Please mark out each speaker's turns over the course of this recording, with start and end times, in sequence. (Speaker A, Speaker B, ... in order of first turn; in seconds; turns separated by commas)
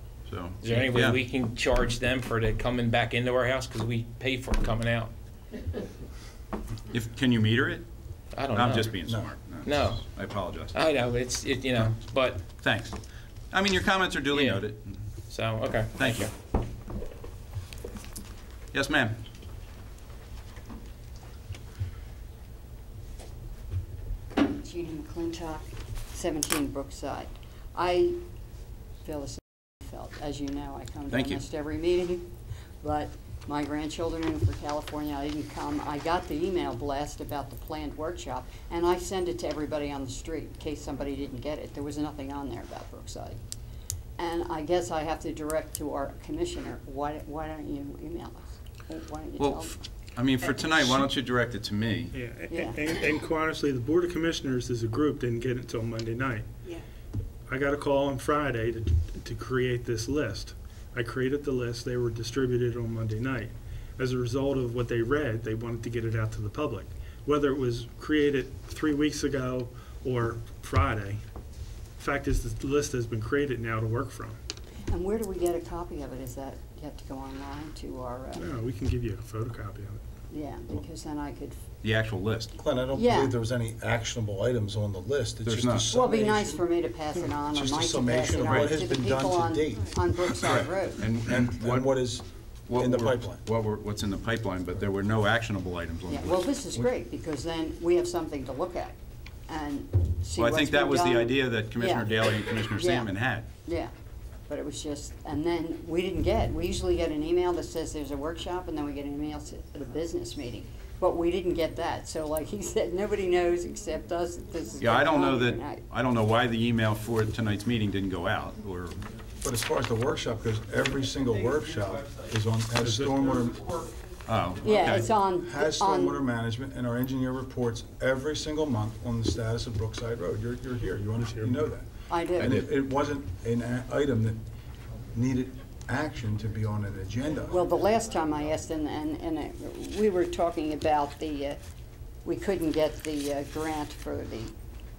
Speaker A: 0.2-1.2, Speaker B: 0.6-5.1, Speaker A: 6.9-7.8, Speaker B: 8.3-8.9, Speaker A: 8.5-10.7, Speaker C: 9.0-9.3, Speaker B: 9.6-10.0, Speaker B: 10.7-12.5, Speaker A: 12.6-13.0, Speaker A: 13.5-14.9, Speaker B: 14.3-14.7, Speaker B: 15.3-16.3, Speaker A: 15.9-16.3, Speaker A: 18.7-19.2, Speaker D: 24.4-28.2, Speaker D: 29.0-32.3, Speaker A: 31.1-31.4, Speaker D: 32.8-43.4, Speaker D: 44.2-49.8, Speaker A: 49.4-52.1, Speaker E: 52.1-56.5, Speaker D: 52.5-53.0, Speaker E: 57.5-71.2, Speaker E: 72.0-74.4, Speaker D: 74.9-78.5, Speaker E: 78.3-80.0, Speaker D: 80.3-81.6, Speaker A: 81.8-82.6, Speaker C: 82.6-86.7, Speaker D: 82.9-83.3, Speaker A: 85.4-85.9, Speaker D: 85.9-91.1, Speaker C: 87.4-90.2, Speaker A: 88.5-88.7, Speaker A: 90.4-92.0, Speaker C: 91.1-93.4, Speaker A: 92.7-96.5, Speaker D: 96.1-98.9, Speaker D: 99.5-103.1, Speaker A: 100.3-103.5, Speaker D: 103.6-103.9, Speaker D: 104.5-115.8, Speaker A: 114.8-119.0, Speaker C: 119.4-123.7, Speaker E: 122.8-123.4, Speaker A: 124.2-125.1, Speaker D: 124.6-126.2, Speaker C: 125.4-134.4, Speaker E: 131.2-131.6, Speaker D: 132.1-132.6, Speaker C: 135.1-137.6, Speaker D: 137.5-141.6, Speaker D: 142.2-144.5